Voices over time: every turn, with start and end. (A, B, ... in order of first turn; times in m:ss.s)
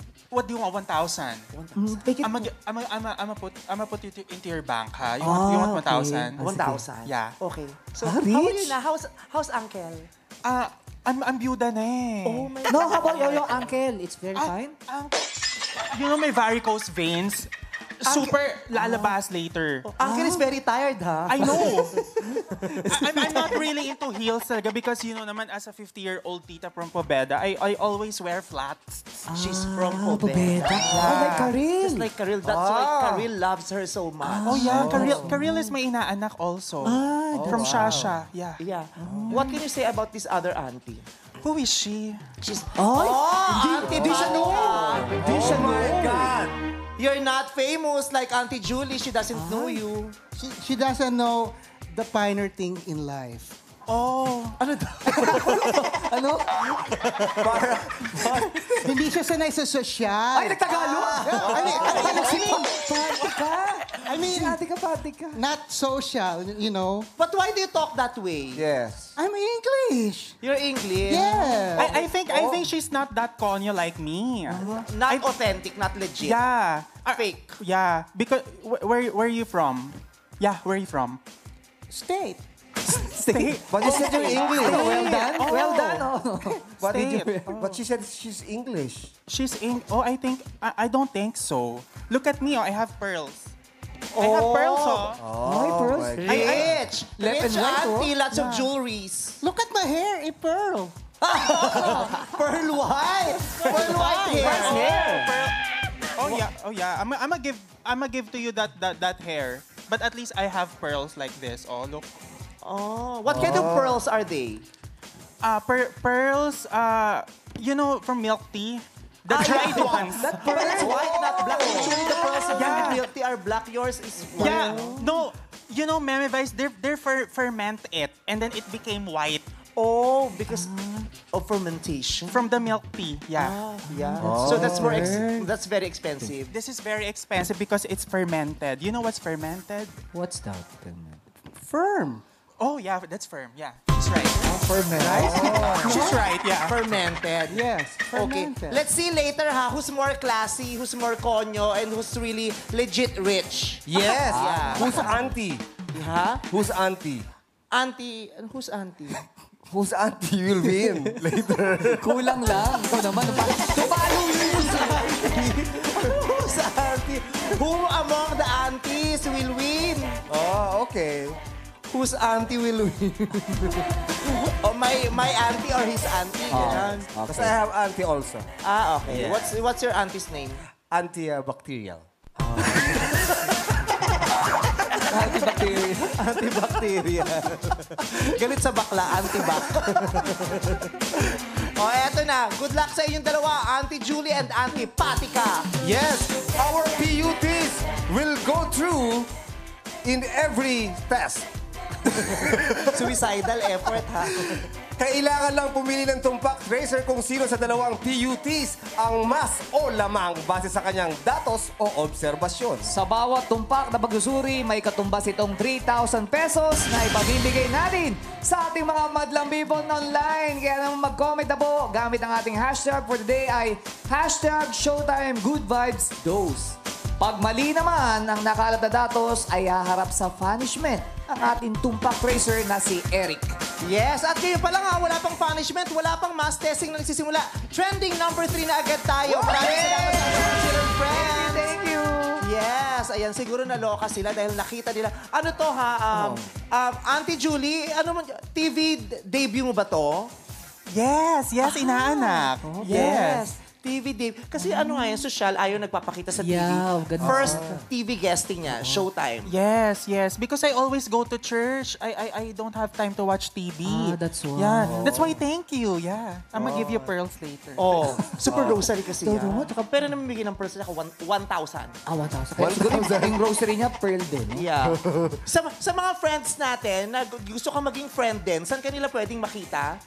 0:00.3-0:01.5 A
0:01.5-0:02.2 B
0:01.8-0:02.5 C
0:02.2-0:06.4 A
0:05.2-0:06.8 C
0:06.4-0:10.1 B
0:07.0-0:07.4 A
0:08.0-0:08.8 C
0:10.4-0:12.5 A
0:12.2-0:13.8 B
0:12.7-0:14.8 C
0:14.3-0:17.5 A
0:18.0-0:19.8 A
0:18.0-0:19.1 B
0:19.8-0:23.6 B
0:20.0-0:20.5 C
0:21.3-0:22.0 A
0:22.9-0:29.2 A
0:29.3-0:32.1 C
0:29.3-0:35.2 B
0:30.8-0:31.5 A
0:32.4-0:33.3 D
0:34.2-0:35.7 C
0:34.4-0:39.5 A
0:36.8-0:38.1 C
0:37.3-0:38.2 D
0:38.6-0:41.1 B
0:39.0-0:39.4 D
0:39.0-0:39.3 C
0:41.4-0:42.2 A
0:42.4-0:46.4 B
0:42.8-0:45.4 E
0:43.8-0:46.6 D
0:47.0-0:50.1 B
0:49.5-0:49.7 C
0:50.3-0:53.6 E
0:53.9-0:54.5 A
0:54.5-0:56.0 B
0:55.1-0:56.7 C
0:56.7-0:58.2 B
0:57.3-0:58.8 D
0:58.4-0:58.8 C
0:58.8-1:02.8 E
1:00.3-1:05.4 C
1:01.4-1:02.6 B
1:01.5-1:01.9 D
1:04.0-1:04.6 E
1:05.3-1:07.1 E
1:07.2-1:08.6 B
1:08.5-1:09.1 D
1:09.2-1:10.4 E
1:10.4-1:12.1 B
1:11.0-1:11.9 E
1:11.7-1:15.3 A
1:12.2-1:12.7 D
1:14.5-1:16.4 B
1:16.2-1:21.2 A
1:17.1-1:17.6 B
1:21.9-1:22.4 E
1:22.9-1:26.1 A
1:22.9-1:27.5 C
1:23.6-1:25.0 D
1:23.9-1:24.2 B
1:24.8-1:25.2 B
1:26.8-1:29.1 D
1:26.8-1:27.8 A
1:29.3-1:33.5 A
1:34.1-1:35.1 B
1:34.2-1:35.2 A
1:35.2-1:36.8 D
1:35.4-1:36.3 C
1:36.2-1:39.4 B
1:36.2-1:36.7 A
1:37.2-1:38.2 C
1:38.3-1:38.7 A
1:39.4-1:41.0 E
1:41.2-1:45.3 B
1:41.5-1:42.2 C
1:41.8-1:42.1 A
1:43.6-1:45.6 A
1:43.6-1:45.0 E
1:44.5-1:45.3 C
1:46.1-1:52.2 A
1:52.6-1:54.6 B
1:53.3-1:54.0 D
1:55.4-2:00.8 A
1:59.3-2:05.0 B
1:59.4-2:03.0 C
2:00.4-2:01.8 D
2:01.9-2:03.0 A
2:04.4-2:09.5 A
2:04.4-2:04.9 E
2:09.8-2:10.7 B
2:10.5-2:11.1 C
2:11.2-2:12.5 B
2:12.3-2:13.6 A
2:13.3-2:16.5 B
2:13.9-2:15.5 C
2:14.2-2:15.2 D
2:16.5-2:20.0 A
2:20.1-2:21.2 C
2:21.5-2:22.2 E
2:22.6-2:24.5 A
2:24.4-2:25.5 C
2:24.9-2:26.2 E
2:25.1-2:26.1 D
2:25.7-2:26.8 A
2:26.6-2:35.2 B
2:27.5-2:28.8 E
2:33.9-2:35.6 D
2:34.1-2:35.3 C
2:35.9-2:36.4 B
2:36.4-2:37.3 D
2:37.7-2:39.2 B
2:39.7-2:42.3 D
2:41.9-2:45.1 C
2:43.7-2:50.2 B
2:50.3-2:51.4 D
2:51.9-2:57.1 B
2:56.5-2:57.6 C
2:56.5-2:58.5 D
2:58.6-3:00.6 B
2:59.0-2:59.5 D
3:00.9-3:03.2 D
3:02.8-3:03.1 B
3:05.0-3:06.2 C
3:06.0-3:10.3 B
3:09.8-3:10.7 D
3:11.4-3:15.7 B
3:15.8-3:19.3 D
3:20.0-3:21.5 D
3:22.0-3:23.2 D
3:22.1-3:24.7 B
3:24.4-3:32.9 D
3:32.8-3:53.6 C
3:53.8-4:01.7 B
3:59.2-4:02.4 C
4:02.4-4:10.3 B
4:06.1-4:06.5 C
4:10.9-4:13.5 A
4:11.6-4:19.5 B
4:12.6-4:13.1 C
4:14.6-4:15.2 C
4:16.3-4:17.8 C
4:17.2-4:17.9 D
4:19.4-4:28.2 A
4:23.8-4:25.2 C
4:24.8-4:25.4 D
4:26.5-4:27.1 D
4:27.8-4:32.0 B
4:28.0-4:28.5 C
4:28.5-4:28.8 D
4:29.2-4:29.8 C
4:32.1-4:34.7 C
4:32.6-4:33.3 D
4:34.5-4:40.0 B
4:34.8-4:35.4 D